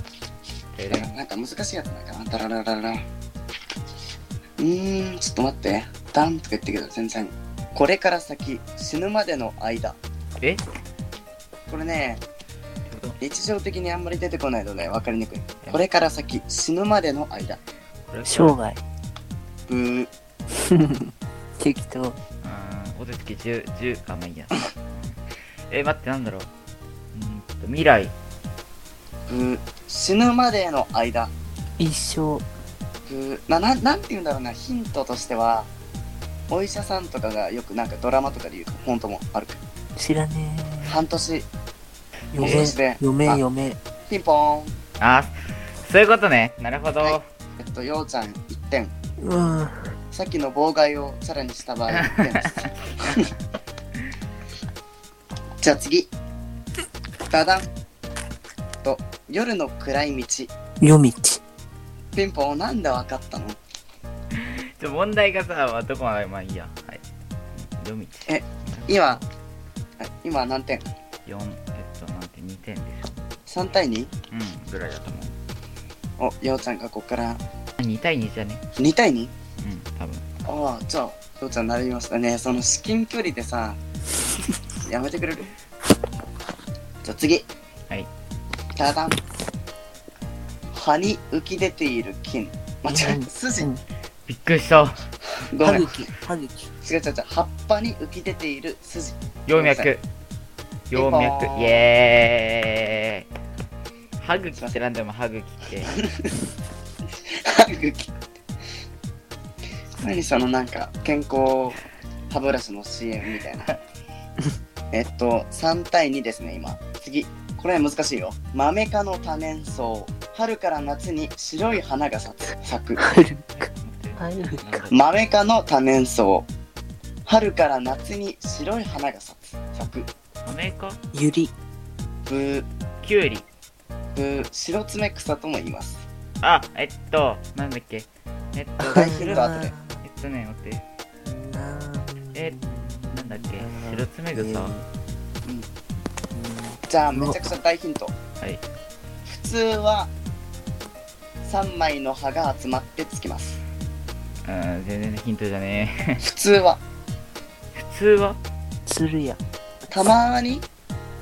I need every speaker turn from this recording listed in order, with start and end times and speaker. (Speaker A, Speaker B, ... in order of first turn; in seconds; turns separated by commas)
Speaker A: 0.7-1.2, Speaker B: 0.9-3.0, Speaker B: 4.6-10.0, Speaker B: 11.7-12.2, Speaker A: 12.8-13.2, Speaker B: 13.2-17.6, Speaker A: 18.1-18.6, Speaker C: 18.2-18.8, Speaker B: 19.7-20.1, Speaker C: 20.7-22.2, Speaker A: 22.4-24.7, Speaker A: 25.7-26.5, Speaker A: 27.1-28.1, Speaker B: 29.3-31.3, Speaker C: 31.8-32.4, Speaker B: 33.1-35.7, Speaker B: 36.5-39.6, Speaker C: 40.0-41.0, Speaker B: 40.8-41.5, Speaker C: 42.3-43.8, Speaker B: 42.4-43.4, Speaker A: 42.4-42.7, Speaker B: 44.1-44.8, Speaker A: 45.0-47.2, Speaker B: 47.0-48.9, Speaker C: 49.2-49.9, Speaker B: 50.1-53.2, Speaker A: 51.9-52.6, Speaker B: 55.6-56.1, Speaker B: 57.3-57.6, Speaker B: 58.8-60.5, Speaker C: 60.8-61.4, Speaker B: 62.1-63.6, Speaker A: 64.3-67.0, Speaker A: 67.6-69.2, Speaker B: 68.3-69.2, Speaker B: 70.0-70.8, Speaker A: 71.2-73.2, Speaker B: 73.5-74.1, Speaker A: 74.3-75.3, Speaker B: 76.2-77.4, Speaker A: 77.8-78.6, Speaker B: 78.8-79.3, Speaker A: 79.6-80.2, Speaker B: 80.4-83.8, Speaker B: 84.8-85.5, Speaker B: 87.0-87.5, Speaker B: 88.8-89.2, Speaker B: 90.7-93.7, Speaker C: 92.9-93.8, Speaker A: 94.3-95.0, Speaker B: 95.5-96.0, Speaker C: 95.6-96.6, Speaker B: 96.8-99.9, Speaker A: 99.5-100.0, Speaker A: 100.9-103.3, Speaker B: 100.9-101.9, Speaker A: 104.2-105.9, Speaker B: 105.9-106.3, Speaker B: 107.2-108.1, Speaker B: 110.0-113.7, Speaker B: 114.9-123.1, Speaker C: 123.0-123.5, Speaker A: 123.5-125.0, Speaker C: 124.2-124.8, Speaker B: 124.9-126.5, Speaker B: 127.2-130.1, Speaker A: 130.4-131.0, Speaker C: 131.1-131.5, Speaker B: 132.3-132.7, Speaker A: 133.0-133.4, Speaker B: 134.1-136.0, Speaker A: 136.4-139.5, Speaker B: 138.8-139.7, Speaker C: 138.8-139.9, Speaker A: 140.0-140.8, Speaker C: 141.2-144.9, Speaker A: 142.3-142.6, Speaker A: 143.1-144.7, Speaker C: 146.3-147.4, Speaker B: 146.9-148.1, Speaker B: 149.2-150.1, Speaker B: 151.4-153.6, Speaker A: 154.4-156.2, Speaker B: 156.2-156.8, Speaker A: 157.7-158.4, Speaker C: 158.8-159.4, Speaker B: 159.9-160.6